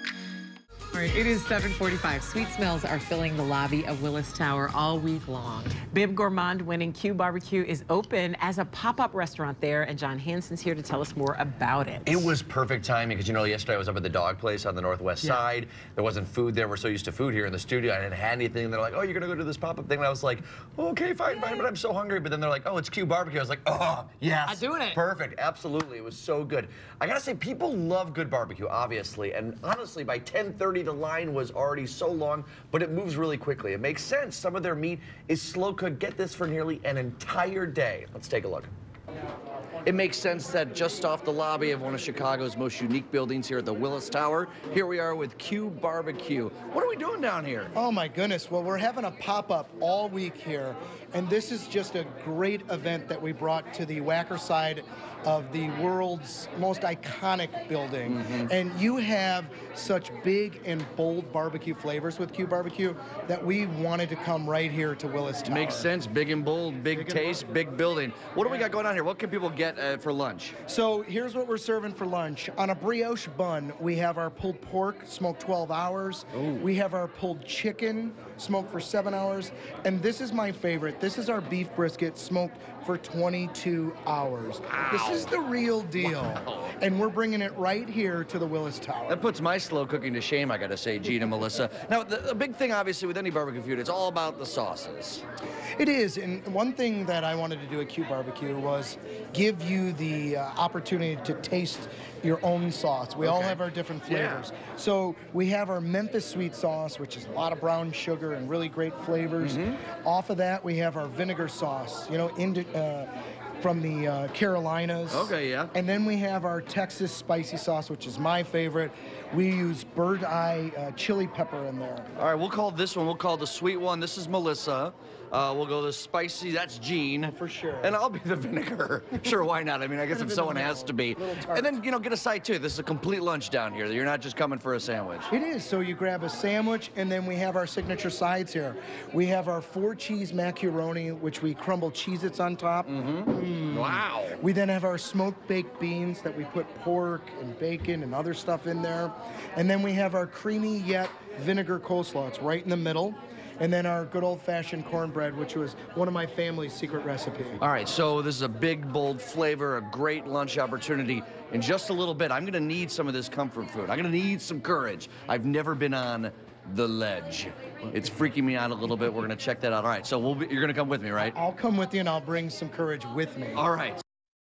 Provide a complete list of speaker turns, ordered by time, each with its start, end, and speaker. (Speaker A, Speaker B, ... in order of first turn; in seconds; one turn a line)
Speaker A: 0.9-5.8
Speaker B: 5.9-12.3
Speaker C: 12.1-38.7
Speaker A: 24.5-25.0
Speaker C: 39.8-47.7
Speaker D: 47.7-65.9
Speaker C: 58.1-58.5
Speaker C: 65.5-70.5
Speaker D: 66.9-67.4
Speaker D: 70.7-89.3
Speaker C: 84.7-85.3
Speaker C: 86.0-86.7
Speaker C: 89.1-95.2
Speaker D: 95.8-122.1
Speaker C: 103.2-104.5
Speaker C: 109.4-109.8
Speaker C: 115.1-115.7
Speaker C: 122.2-135.3
Speaker D: 127.2-128.0
Speaker D: 130.1-131.8
Speaker D: 135.3-157.6
Speaker C: 142.9-144.4
Speaker C: 157.6-171.3
Speaker D: 171.2-173.7
Speaker C: 173.6-174.0